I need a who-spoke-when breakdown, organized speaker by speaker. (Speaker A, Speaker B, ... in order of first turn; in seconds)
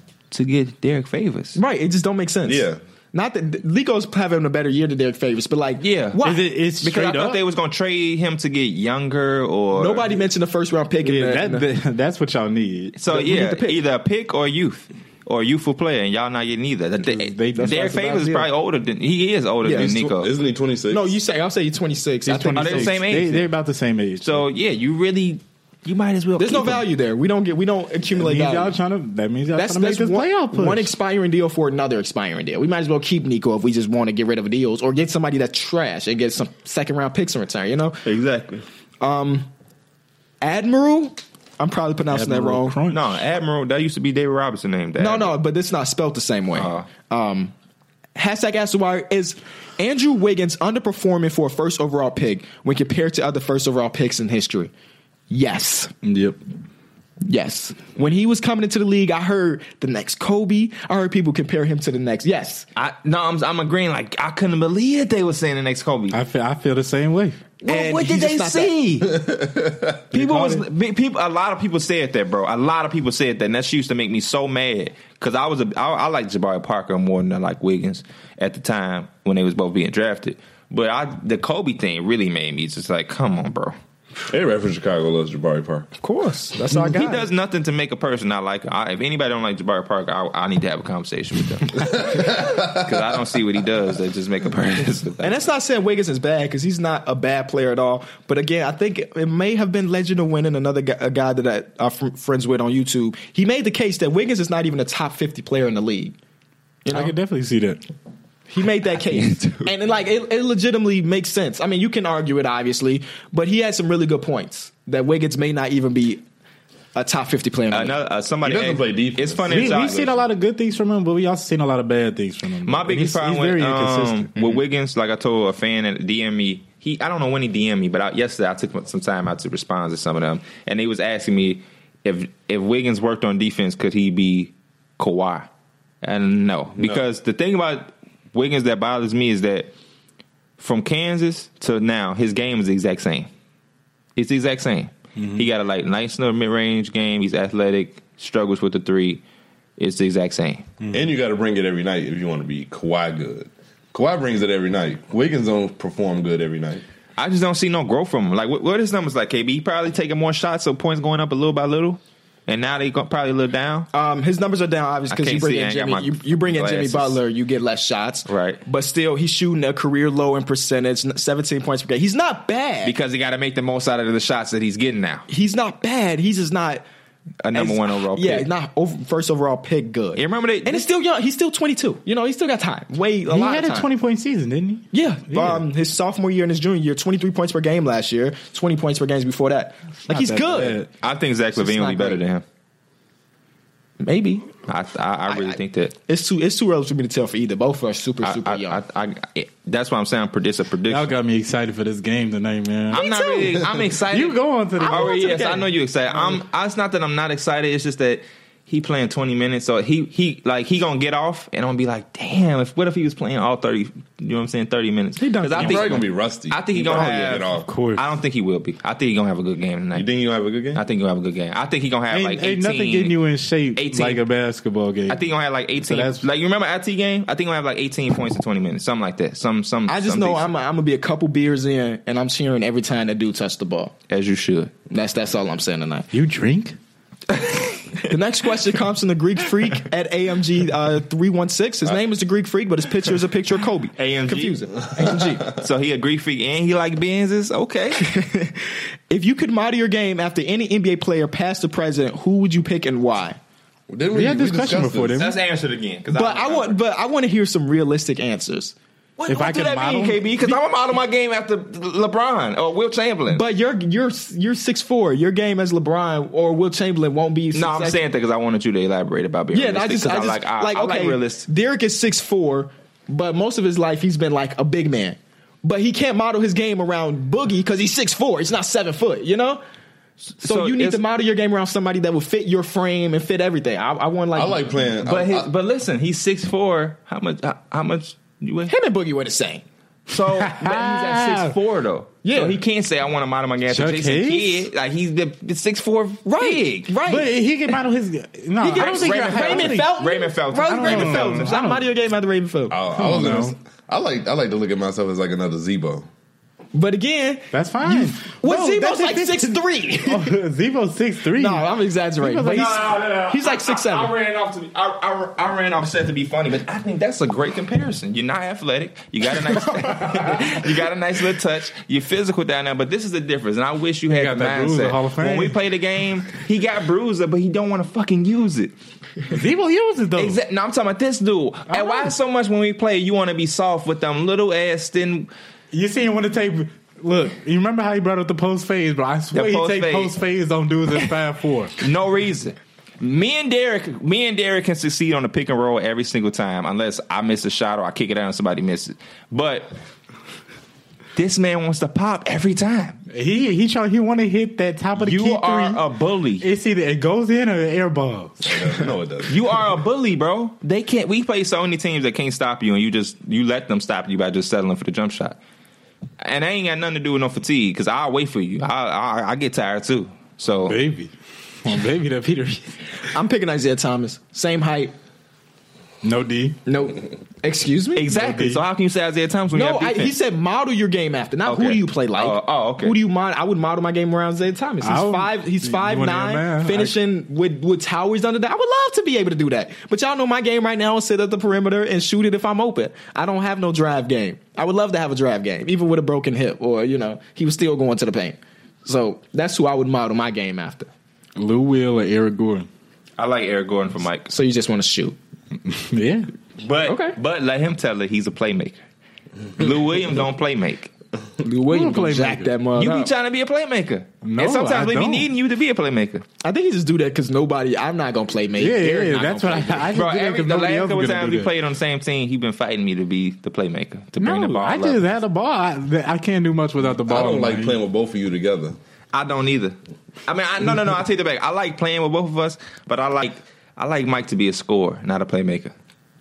Speaker A: 0.3-1.6, 5.8-6.2, 6.8-10.2, 12.9-20.3, 22.6-23.5, 24.2-26.8, 38.0-38.6, 42.9-45.3, 46.5-46.9, 62.8-66.2, 67.7-69.1, 70.1-83.8, 86.7-95.3, 109.2-109.5, 117.7-120.2, 122.6-135.5, 136.0-139.7, 140.6-143.3, 144.2-149.2, 149.8-150.6, 157.2-163.9, 165.1-167.2, 168.3-168.6, 172.8-175.3, 177.4-178.5, 180.2-180.8, 191.0-192.4, 194.7-195.9, 198.2-201.1, 202.9-220.1, 220.7-223.2, 223.7-224.2, 225.1-230.5, 234.1-234.7, 237.3-238.1, 244.0-248.1, 255.2-256.8, 259.2-263.4, 267.5-271.4, 280.4-281.0, 285.0-288.7, 290.1-296.9, 298.7-301.6, 312.5-328.7, 330.1-335.3, 339.3-340.1, 341.8-349.7, 351.1-353.0, 354.9-356.5, 359.3-365.4, 366.2-370.8, 377.9-380.1, 381.4-383.0, 403.2-404.3, 406.6-408.8, 409.6-410.9, 412.8-416.2, 419.9-425.1, 429.1-435.7
Speaker B: 1.5-6.5, 9.7-11.7, 13.1-13.8, 17.5-18.4, 19.6-19.9, 20.9-23.0, 26.4-28.7, 29.5-38.0, 39.0-39.5, 40.4-42.8, 45.0-47.5, 48.1-54.7, 55.3-55.9, 57.2-62.6, 67.6-68.7, 86.0-87.3, 95.2-106.1, 106.8-107.1, 108.5-116.2, 116.9-118.0, 163.9-172.9, 175.3-176.8, 177.5-183.9, 184.9-190.8, 191.5-192.2, 194.0-194.5, 195.3-198.8, 202.9-203.6, 204.8-205.7, 215.2-216.0, 229.9-233.9, 234.9-236.1, 238.1-245.5, 248.0-253.4, 256.1-258.7, 263.3-268.0, 269.5-279.6, 280.4-284.9, 288.7-289.6, 292.2-292.6, 296.2-297.3, 298.6-302.8, 306.7-310.4, 311.4-314.1, 373.1-374.9, 376.6-378.1, 379.5-400.9, 404.3-405.1, 406.8-407.1, 411.4-413.1, 416.4-420.0
Speaker C: 2.4-2.8, 19.7-21.1, 69.0-70.1, 84.3-85.9, 91.8-93.0, 118.4-120.2, 150.9-156.8, 215.6-217.7, 219.9-220.8, 253.9-255.2, 284.3-285.5, 302.7-306.1, 358.4-359.4, 427.1-428.8
Speaker D: 6.2-7.4, 11.0-13.0, 17.0-18.3, 22.2-24.4, 28.1-30.9, 42.1-43.1, 56.0-56.4, 66.1-67.4, 106.9-107.8, 119.5-124.3, 145.2-145.4, 183.3-185.6, 190.1-190.9, 200.9-203.0, 204.1-205.3, 217.5-218.0, 222.1-225.2, 225.8-226.2, 236.1-236.8, 254.1-255.4, 259.3-260.3, 290.3-291.5, 293.7-294.6, 297.0-299.9, 300.6-301.8, 302.9-303.5, 307.5-311.7, 312.2-313.0, 324.1-325.6, 329.2-330.4, 331.7-332.1, 335.7-341.8, 353.1-355.8, 356.4-358.7, 370.7-371.1, 371.6-372.7, 376.0-376.6, 378.1-378.6, 384.8-386.9, 401.4-402.7, 405.6-406.3, 411.7-412.5, 414.2-415.3, 418.6-421.5, 424.2-427.8